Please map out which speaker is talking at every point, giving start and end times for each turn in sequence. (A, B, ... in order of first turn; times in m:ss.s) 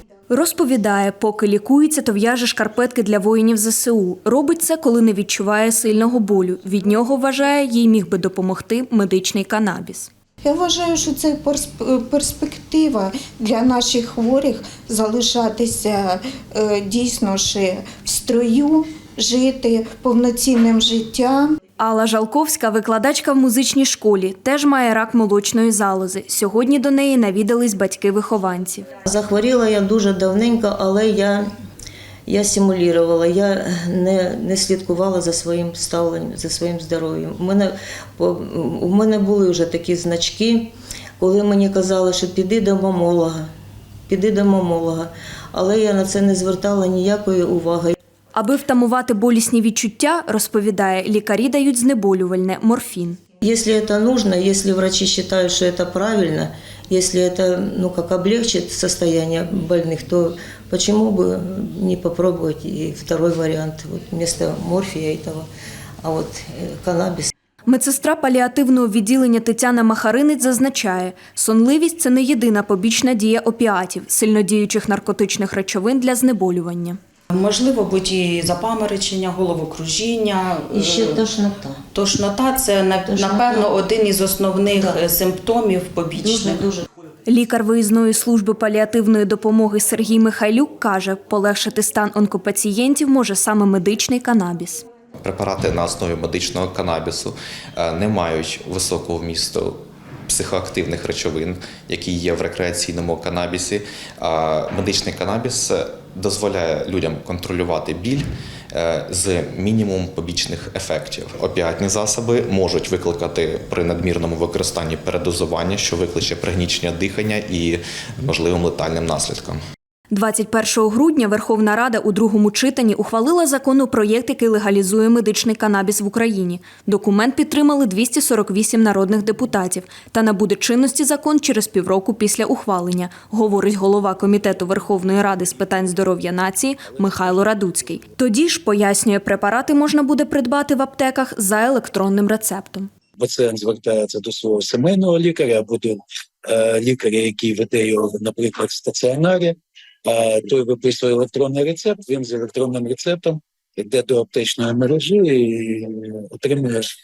0:00.3-0:10.1 A
0:10.4-0:21.6 B
0:21.8-0:28.9 A
0:29.0-0:31.5 C
0:32.3-0:43.5 C
0:44.1-0:48.0 C
0:48.3-0:53.2 A
0:53.4-1:05.5 C
1:06.0-1:07.3 C
1:07.7-1:17.0 A
1:17.3-1:21.2 D
1:20.7-1:21.8 C
1:21.9-1:26.6 D
1:23.0-1:23.7 C
1:26.2-1:26.9 C
1:27.3-1:34.8 A
1:35.2-1:59.6 E
2:00.1-2:22.9 A
2:23.2-2:36.9 F